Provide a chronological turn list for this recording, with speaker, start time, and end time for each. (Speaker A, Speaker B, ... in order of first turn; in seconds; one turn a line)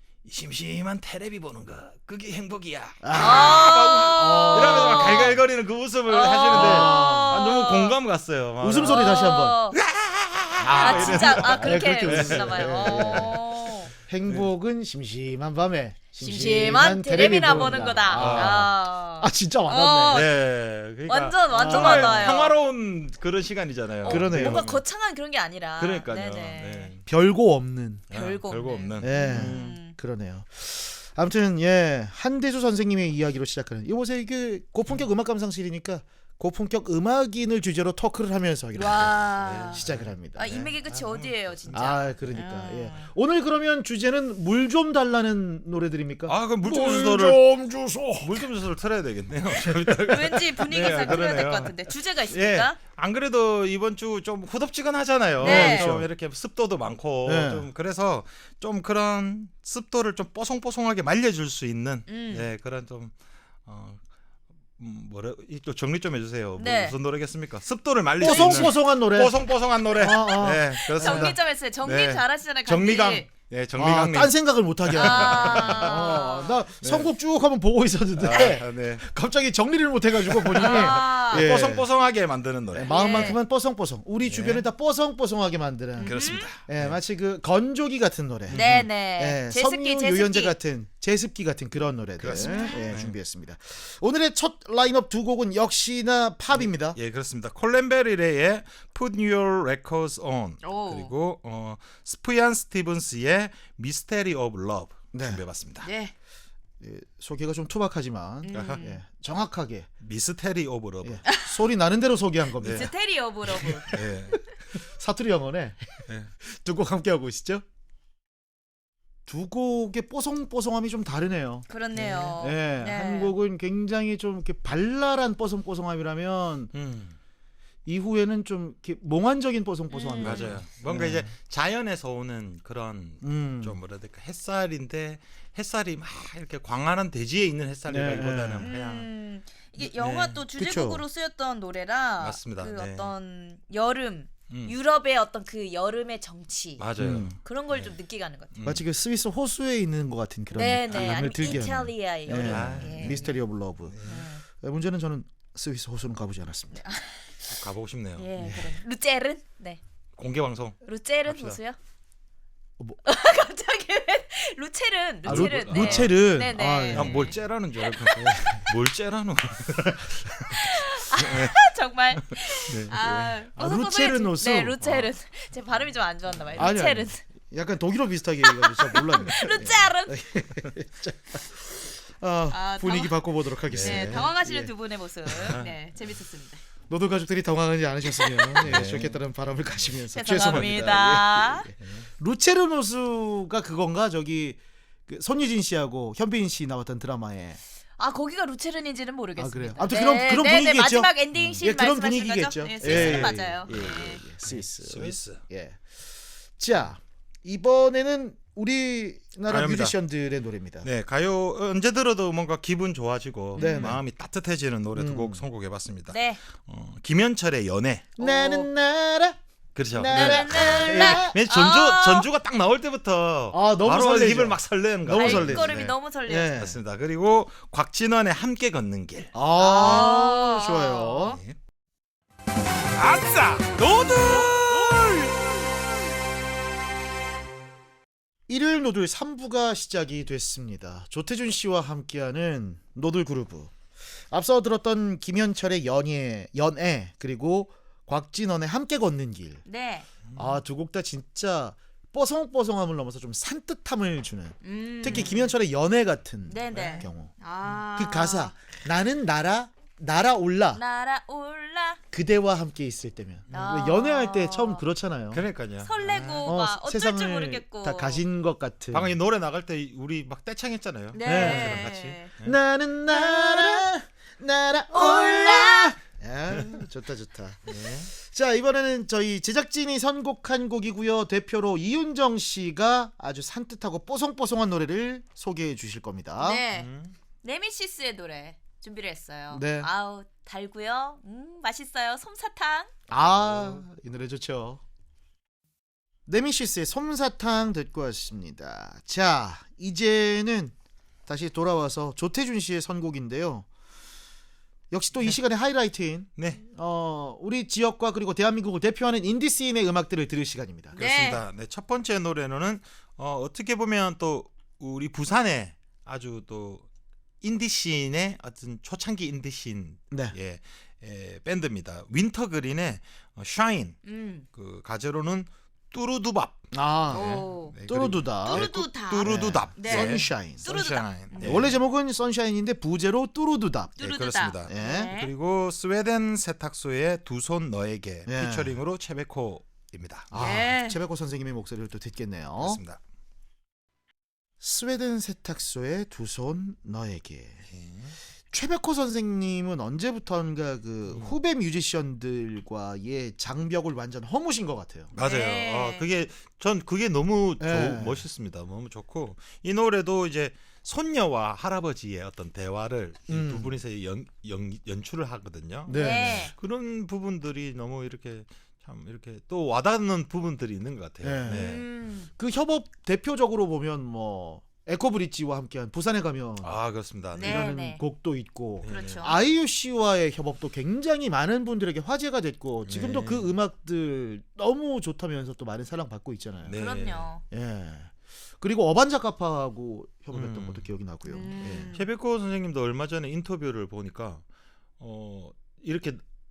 Speaker A: 0.2-13.4
Speaker B: 3.0-5.4
Speaker C: 3.1-5.4
Speaker C: 6.1-8.0
Speaker B: 6.5-7.4
Speaker B: 8.6-9.6
Speaker C: 8.8-9.8
Speaker B: 10.6-13.4
Speaker C: 10.7-13.9
Speaker B: 13.9-20.2
Speaker C: 16.2-20.3
Speaker A: 17.3-18.7
Speaker A: 20.1-24.8
Speaker C: 21.1-22.5
Speaker B: 21.5-22.5
Speaker B: 24.0-24.6
Speaker C: 24.0-26.9
Speaker A: 25.8-27.1
Speaker B: 27.1-28.1
Speaker A: 28.1-29.8
Speaker C: 28.1-29.9
Speaker B: 29.0-40.7
Speaker C: 38.8-39.8
Speaker A: 39.4-41.9
Speaker C: 40.3-43.1
Speaker B: 41.7-48.5
Speaker A: 46.3-47.4
Speaker A: 48.2-63.1
Speaker B: 49.6-50.1
Speaker C: 50.1-52.8
Speaker B: 50.7-51.3
Speaker C: 55.4-55.9
Speaker B: 55.4-56.1
Speaker B: 57.2-57.7
Speaker C: 62.1-62.5
Speaker A: 63.6-64.0
Speaker A: 64.8-76.2
Speaker C: 66.6-67.0
Speaker B: 68.2-69.4
Speaker C: 68.2-68.7
Speaker B: 69.9-71.3
Speaker C: 70.0-73.3
Speaker B: 73.8-81.9
Speaker C: 75.0-76.6
Speaker A: 76.8-77.1
Speaker A: 78.2-79.0
Speaker A: 80.3-83.3
Speaker C: 80.6-81.5
Speaker B: 82.7-97.0
Speaker C: 82.9-83.4
Speaker A: 84.2-84.6
Speaker C: 86.0-86.5
Speaker A: 86.0-87.0
Speaker C: 88.5-90.5
Speaker A: 92.2-93.1
Speaker C: 92.3-92.9
Speaker A: 96.5-105.9
Speaker C: 100.6-101.1
Speaker B: 105.1-105.4
Speaker C: 105.8-106.1
Speaker B: 106.8-109.9
Speaker C: 108.4-109.0
Speaker A: 108.5-108.8
Speaker A: 110.0-111.2
Speaker B: 111.0-112.9
Speaker C: 111.2-111.6
Speaker A: 112.6-112.9
Speaker C: 112.6-114.0
Speaker A: 113.5-114.4
Speaker B: 114.7-117.6
Speaker A: 116.1-116.3
Speaker B: 119.2-126.7
Speaker C: 121.7-123.3
Speaker A: 126.7-127.2
Speaker B: 127.8-131.3
Speaker C: 129.9-130.6
Speaker A: 130.2-139.1
Speaker B: 133.2-133.8
Speaker B: 137.9-138.7
Speaker C: 138.6-148.5
Speaker A: 139.8-140.4
Speaker B: 140.6-141.0
Speaker A: 142.2-143.1
Speaker A: 146.8-147.9
Speaker B: 147.0-147.3
Speaker A: 148.5-148.8
Speaker B: 148.6-154.0
Speaker C: 150.5-153.4
Speaker A: 150.9-151.2
Speaker A: 152.3-153.2
Speaker A: 153.9-154.3
Speaker C: 154.0-154.4
Speaker B: 154.5-156.8
Speaker C: 156.7-157.4
Speaker A: 157.5-158.3
Speaker C: 158.2-159.8
Speaker B: 158.4-158.8
Speaker A: 160.2-161.6
Speaker C: 160.8-161.8
Speaker C: 163.0-168.3
Speaker A: 165.2-166.2
Speaker B: 165.2-167.3
Speaker A: 166.9-171.6
Speaker B: 168.2-168.7
Speaker C: 170.4-177.2
Speaker A: 172.2-173.3
Speaker B: 173.5-174.8
Speaker A: 174.8-175.1
Speaker B: 176.6-184.7
Speaker C: 178.4-180.2
Speaker C: 182.5-183.1
Speaker A: 183.7-184.3
Speaker C: 183.8-186.6
Speaker B: 185.2-185.6
Speaker A: 185.4-185.8
Speaker B: 186.9-197.6
Speaker C: 188.1-188.8
Speaker A: 188.6-189.2
Speaker C: 190.1-191.7
Speaker A: 190.3-191.1
Speaker A: 191.8-192.1
Speaker C: 198.0-204.2
Speaker B: 199.4-205.8
Speaker A: 201.3-201.6
Speaker A: 202.8-205.4
Speaker B: 206.6-210.9
Speaker A: 209.5-209.9
Speaker A: 210.8-218.1
Speaker C: 213.6-213.9
Speaker B: 213.6-214.0
Speaker B: 214.9-215.4
Speaker C: 216.1-216.4
Speaker B: 218.2-219.4
Speaker C: 218.2-218.7
Speaker A: 219.7-225.9
Speaker B: 219.9-221.4
Speaker C: 220.1-222.3
Speaker B: 223.5-226.8
Speaker C: 225.1-226.5
Speaker A: 226.5-229.3
Speaker B: 229.3-231.4
Speaker C: 229.6-231.4
Speaker A: 231.2-231.6
Speaker A: 232.9-235.4
Speaker B: 238.5-243.7
Speaker B: 244.3-249.6
Speaker C: 249.6-250.1
Speaker A: 250.3-250.6
Speaker B: 250.3-257.3
Speaker C: 254.6-255.5
Speaker C: 256.5-258.5
Speaker A: 256.7-257.0
Speaker B: 257.9-260.8
Speaker C: 260.7-262.0
Speaker B: 262.1-265.4
Speaker C: 263.5-264.8
Speaker A: 265.3-266.5
Speaker C: 265.8-268.2
Speaker B: 266.4-269.1
Speaker A: 268.9-272.6
Speaker C: 271.1-272.3
Speaker B: 271.2-271.9
Speaker B: 272.4-286.6
Speaker C: 273.1-273.9
Speaker C: 274.9-276.0
Speaker A: 277.7-278.1
Speaker C: 286.4-286.9
Speaker A: 286.7-287.1
Speaker C: 287.4-292.9
Speaker B: 289.5-289.9
Speaker B: 293.1-294.8
Speaker A: 293.2-293.8
Speaker B: 296.2-300.7
Speaker B: 301.2-303.7
Speaker B: 304.9-311.0
Speaker A: 306.4-306.6
Speaker A: 310.9-316.9
Speaker C: 311.0-311.4
Speaker A: 317.4-324.0
Speaker B: 320.1-320.4
Speaker C: 324.0-324.4
Speaker A: 324.5-331.8
Speaker B: 326.7-328.7
Speaker C: 327.1-327.7
Speaker C: 328.4-331.7
Speaker B: 329.2-330.7
Speaker B: 331.4-334.0
Speaker C: 334.0-335.3
Speaker A: 334.0-340.3
Speaker B: 334.6-335.1
Speaker B: 338.3-338.7
Speaker B: 340.3-342.8
Speaker C: 340.3-341.0
Speaker A: 342.6-343.0
Speaker B: 344.6-347.6
Speaker A: 347.7-348.1
Speaker B: 348.5-355.1
Speaker A: 351.1-351.4
Speaker A: 355.1-371.8
Speaker C: 355.2-356.1
Speaker B: 357.6-358.2
Speaker B: 363.3-363.7
Speaker B: 365.9-366.5
Speaker C: 365.9-366.5
Speaker B: 371.2-371.7
Speaker C: 371.5-372.3
Speaker B: 372.3-376.7
Speaker A: 376.6-377.7
Speaker C: 377.3-378.0
Speaker B: 377.3-386.8
Speaker A: 378.8-379.3
Speaker C: 378.9-379.4
Speaker A: 382.9-383.5
Speaker A: 386.6-387.3
Speaker C: 386.7-387.4
Speaker B: 387.5-391.9
Speaker A: 390.3-390.9
Speaker C: 391.2-392.1
Speaker A: 391.6-394.4
Speaker A: 395.0-396.2